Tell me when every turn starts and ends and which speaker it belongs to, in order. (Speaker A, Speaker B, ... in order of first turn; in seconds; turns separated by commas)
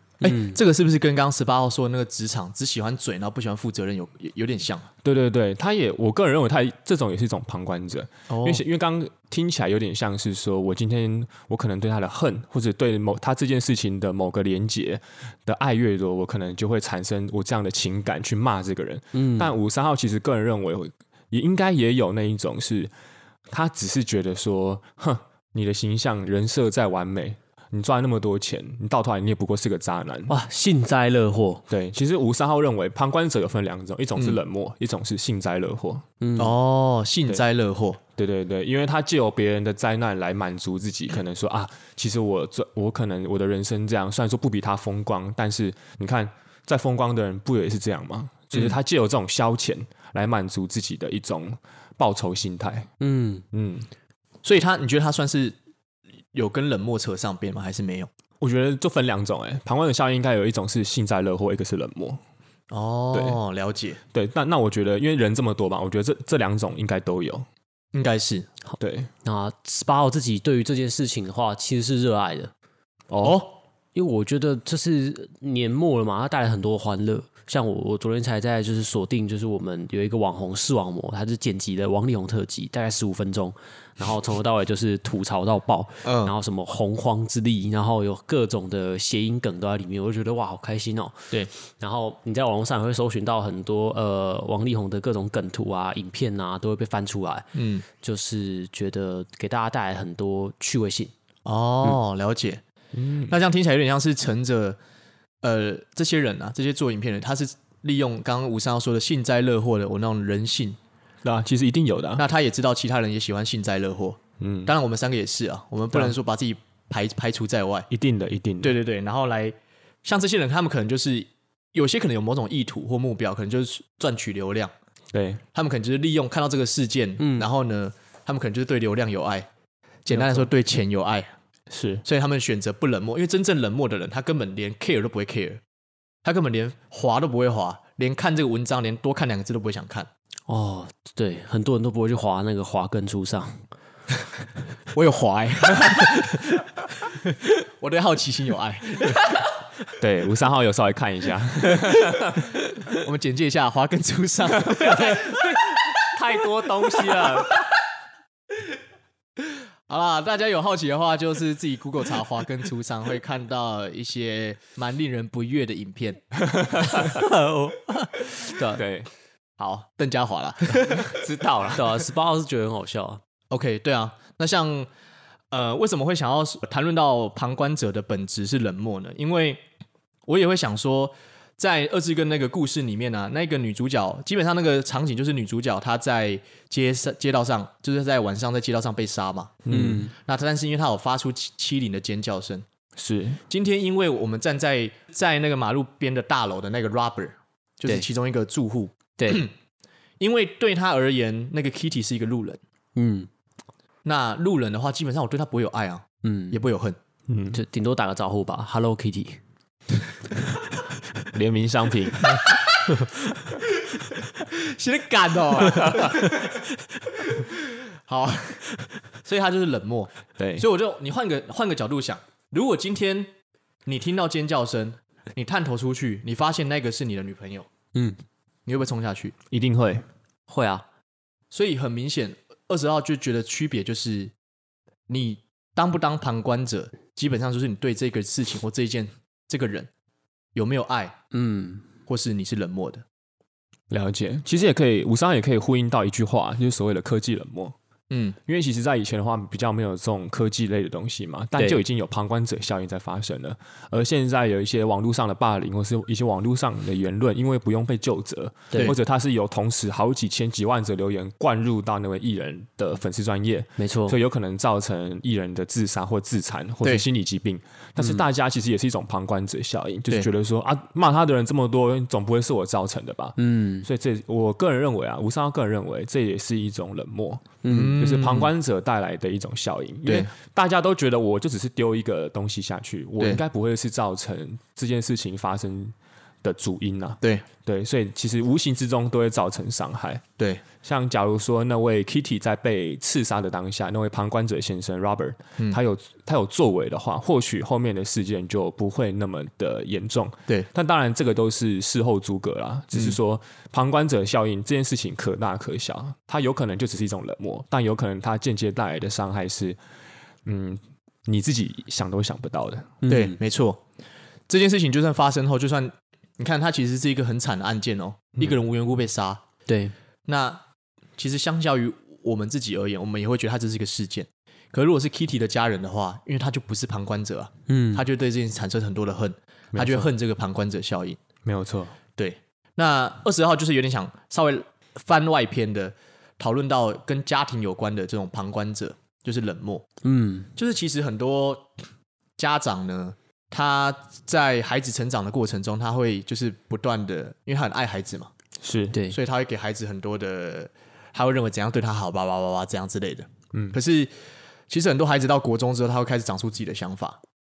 Speaker A: 0.2-4.9, Speaker B: 0.2-0.6, Speaker C: 5.0-22.9, Speaker A: 8.3-8.6, Speaker B: 19.1-19.5, Speaker C: 23.5-30.4, Speaker B: 30.3-31.6, Speaker C: 31.7-36.0, Speaker B: 36.2-36.5, Speaker A: 36.4-38.0, Speaker C: 38.1-52.9, Speaker B: 53.0-53.4, Speaker C: 53.5-53.9, Speaker A: 54.4-55.5, Speaker A: 56.3-58.1, Speaker C: 58.4-62.2, Speaker A: 62.7-64.0, Speaker C: 63.1-63.4, Speaker C: 64.1-67.5, Speaker A: 67.9-68.5, Speaker C: 68.8-69.1, Speaker B: 69.2-72.5, Speaker C: 73.1-73.4, Speaker A: 73.2-73.6, Speaker B: 73.9-101.1, Speaker A: 86.0-86.3, Speaker A: 97.5-97.8, Speaker A: 101.4-102.6, Speaker C: 102.9-103.3, Speaker A: 103.3-104.8, Speaker A: 105.4-110.8, Speaker C: 111.2-112.2, Speaker A: 112.2-117.9, Speaker C: 114.4-114.7, Speaker C: 117.9-118.8, Speaker A: 118.6-124.7, Speaker C: 125.1-125.4, Speaker A: 125.5-129.5, Speaker B: 127.2-127.5, Speaker A: 130.0-131.3, Speaker C: 130.1-130.5, Speaker C: 131.7-132.0, Speaker A: 132.0-135.6, Speaker A: 136.2-140.1, Speaker B: 140.5-143.6, Speaker A: 144.9-146.6, Speaker A: 147.8-149.2, Speaker C: 150.0-152.5, Speaker A: 152.9-155.2, Speaker C: 154.7-157.6, Speaker B: 154.9-155.3, Speaker A: 159.9-166.2, Speaker C: 166.4-167.2, Speaker B: 166.9-168.8, Speaker C: 168.7-169.1, Speaker A: 169.6-171.2, Speaker C: 170.9-171.9, Speaker B: 171.7-173.2, Speaker A: 173.5-174.9, Speaker A: 175.5-179.6, Speaker A: 180.3-189.6, Speaker C: 189.7-190.1, Speaker B: 189.7-190.1, Speaker A: 190.2-192.6, Speaker C: 192.9-193.4, Speaker A: 193.5-199.5, Speaker B: 199.2-199.4, Speaker A: 200.2-202.6, Speaker B: 202.9-203.3, Speaker A: 204.0-207.0, Speaker B: 206.2-206.6, Speaker C: 207.3-207.6, Speaker B: 207.5-209.4, Speaker C: 211.3-212.5, Speaker A: 214.3-216.6, Speaker C: 215.7-216.2, Speaker A: 217.2-217.5, Speaker A: 218.1-223.3, Speaker C: 220.4-220.6, Speaker A: 223.8-227.7, Speaker A: 228.7-229.3, Speaker C: 229.5-230.1, Speaker B: 230.5-230.8, Speaker A: 231.5-234.3, Speaker A: 235.1-239.9, Speaker A: 240.5-241.2, Speaker B: 241.3-241.8, Speaker A: 242.1-243.0, Speaker C: 243.9-247.8, Speaker A: 248.1-248.4, Speaker C: 248.4-290.2, Speaker B: 251.6-251.8, Speaker B: 263.8-264.2, Speaker B: 273.4-273.9, Speaker B: 277.6-278.0, Speaker A: 277.7-278.5, Speaker A: 280.0-280.3, Speaker C: 290.8-309.8, Speaker C: 310.4-313.0, Speaker B: 313.0-313.4, Speaker A: 313.1-313.8, Speaker A: 314.5-319.4, Speaker B: 319.7-319.9, Speaker A: 320.2-320.6, Speaker A: 321.2-331.2, Speaker B: 327.7-328.1, Speaker C: 329.7-330.1, Speaker C: 331.4-331.9, Speaker A: 332.2-339.8, Speaker B: 340.0-340.5, Speaker A: 340.6-341.7, Speaker A: 342.4-348.3, Speaker C: 348.6-349.0, Speaker A: 349.1-354.1, Speaker A: 354.7-357.2